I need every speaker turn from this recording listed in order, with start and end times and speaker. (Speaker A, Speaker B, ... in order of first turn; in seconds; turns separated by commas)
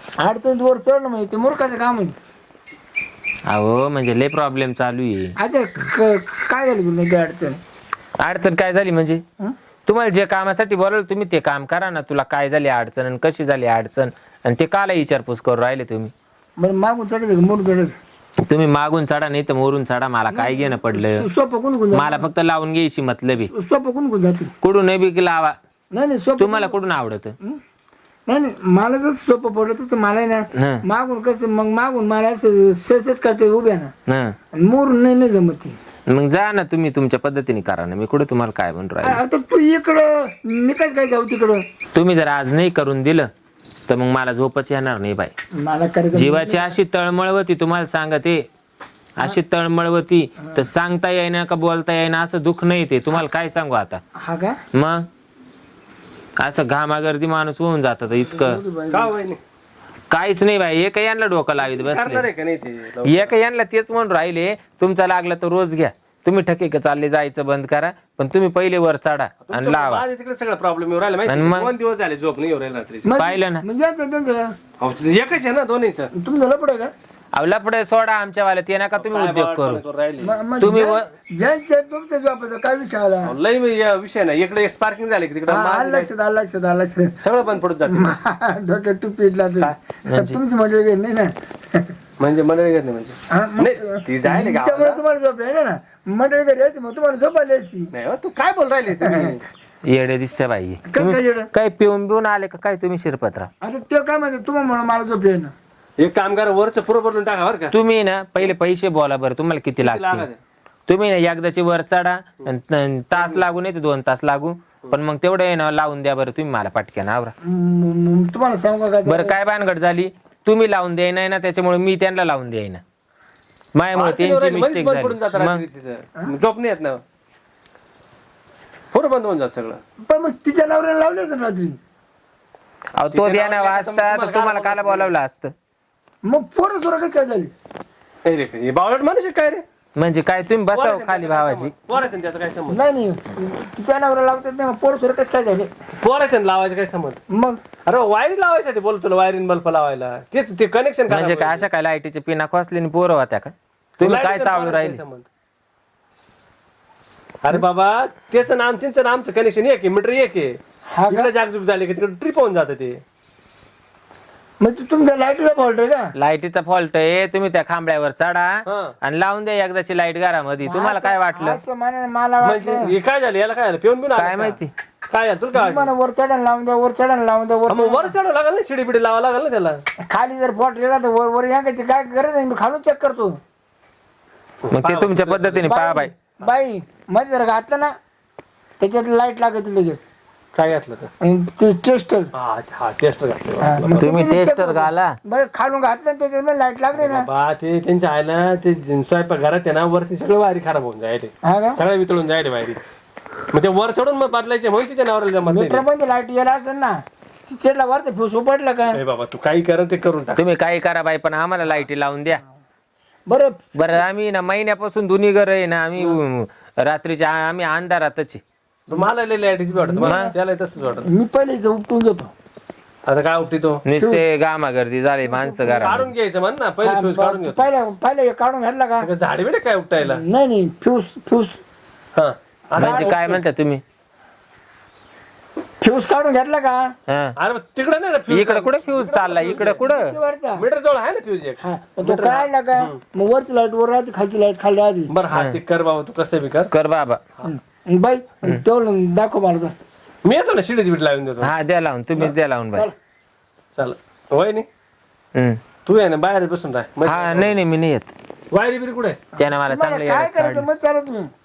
Speaker A: 0.2-2.1, Speaker B: 3.5-5.3, Speaker A: 5.4-7.6, Speaker B: 8.2-9.2, Speaker B: 9.9-16.1, Speaker A: 16.6-17.9, Speaker B: 18.5-21.2, Speaker A: 20.3-22.3, Speaker B: 21.9-23.5, Speaker A: 23.4-24.5, Speaker B: 24.6-25.6, Speaker A: 25.9-26.8, Speaker B: 26.4-27.3, Speaker A: 28.3-33.9, Speaker B: 30.5-30.8, Speaker B: 34.1-34.4, Speaker A: 34.5-35.8, Speaker B: 36.1-39.2, Speaker A: 39.0-41.6, Speaker B: 41.9-43.3, Speaker B: 43.9-45.3, Speaker A: 45.6-46.7, Speaker B: 46.1-48.5, Speaker B: 49.2-54.0, Speaker A: 54.2-54.6, Speaker B: 54.7-55.1, Speaker B: 56.4-58.6, Speaker A: 58.2-59.1, Speaker C: 58.9-59.4, Speaker B: 60.1-62.3, Speaker C: 61.6-63.4, Speaker B: 63.0-70.0, Speaker C: 69.4-73.1, Speaker B: 71.2-71.7, Speaker A: 73.0-74.5, Speaker B: 73.2-73.6, Speaker C: 74.8-76.1, Speaker A: 76.1-76.9, Speaker B: 77.3-79.8, Speaker C: 79.0-80.4, Speaker A: 80.2-83.3, Speaker B: 80.6-81.1, Speaker C: 83.2-86.1, Speaker A: 85.5-87.2, Speaker C: 87.2-88.2, Speaker A: 87.9-91.9, Speaker B: 90.1-90.4, Speaker C: 92.2-95.0, Speaker A: 93.3-97.9, Speaker C: 97.9-99.4, Speaker A: 99.0-99.3, Speaker B: 99.8-103.5, Speaker A: 100.9-101.5, Speaker A: 103.6-105.5, Speaker C: 106.0-107.7, Speaker B: 107.7-110.3, Speaker C: 109.8-110.4, Speaker B: 110.9-117.3, Speaker C: 113.1-113.4, Speaker A: 117.4-119.4, Speaker B: 119.0-122.8, Speaker B: 123.7-125.6, Speaker C: 123.9-127.0, Speaker C: 128.9-129.8, Speaker A: 130.0-131.8, Speaker B: 132.9-135.5, Speaker C: 133.1-135.1, Speaker A: 136.2-137.5, Speaker C: 138.2-139.6, Speaker B: 139.9-141.7, Speaker C: 140.7-142.8, Speaker A: 142.7-145.7, Speaker C: 146.0-147.2, Speaker A: 147.3-147.6, Speaker C: 147.8-151.7, Speaker B: 151.1-155.0, Speaker C: 154.0-155.2, Speaker C: 157.4-160.6, Speaker A: 160.9-161.3, Speaker C: 161.1-163.0, Speaker A: 164.6-166.1, Speaker B: 166.1-171.6, Speaker C: 168.7-168.9, Speaker A: 170.6-172.9, Speaker C: 172.4-175.9, Speaker B: 174.2-174.7, Speaker A: 175.5-178.1, Speaker C: 177.7-179.8, Speaker A: 180.1-183.4, Speaker C: 184.6-185.7, Speaker B: 184.7-186.1, Speaker A: 185.6-187.9, Speaker A: 188.8-190.0, Speaker C: 190.5-191.1, Speaker A: 191.2-192.3, Speaker C: 192.3-194.1, Speaker A: 193.6-197.3, Speaker B: 194.0-195.2, Speaker C: 196.9-202.8, Speaker A: 201.4-201.8, Speaker C: 203.5-205.8, Speaker A: 205.4-209.0, Speaker C: 208.9-210.4, Speaker B: 210.3-212.4, Speaker A: 213.3-214.0, Speaker B: 213.7-218.4, Speaker C: 218.9-221.1, Speaker A: 219.8-220.3, Speaker B: 220.0-220.3, Speaker A: 221.0-222.3, Speaker C: 223.1-223.8, Speaker B: 223.8-226.1, Speaker A: 224.0-224.2, Speaker A: 225.3-226.0, Speaker C: 225.6-227.7, Speaker A: 226.8-229.1, Speaker C: 229.0-230.2, Speaker A: 230.0-231.6, Speaker C: 232.1-233.4, Speaker A: 232.7-233.1, Speaker B: 232.8-233.8, Speaker A: 235.8-236.9, Speaker B: 237.1-237.3, Speaker C: 237.4-239.9, Speaker B: 238.3-240.2, Speaker A: 239.5-240.6, Speaker C: 240.5-243.0, Speaker A: 241.6-245.1, Speaker C: 245.1-246.7, Speaker B: 245.3-245.6, Speaker B: 246.7-247.2, Speaker A: 247.4-249.7, Speaker C: 250.2-251.5, Speaker B: 251.4-252.9, Speaker C: 253.8-254.7, Speaker B: 255.3-255.6, Speaker C: 255.8-257.6, Speaker B: 257.0-258.1, Speaker C: 258.5-259.2, Speaker B: 259.4-260.7, Speaker A: 259.6-261.3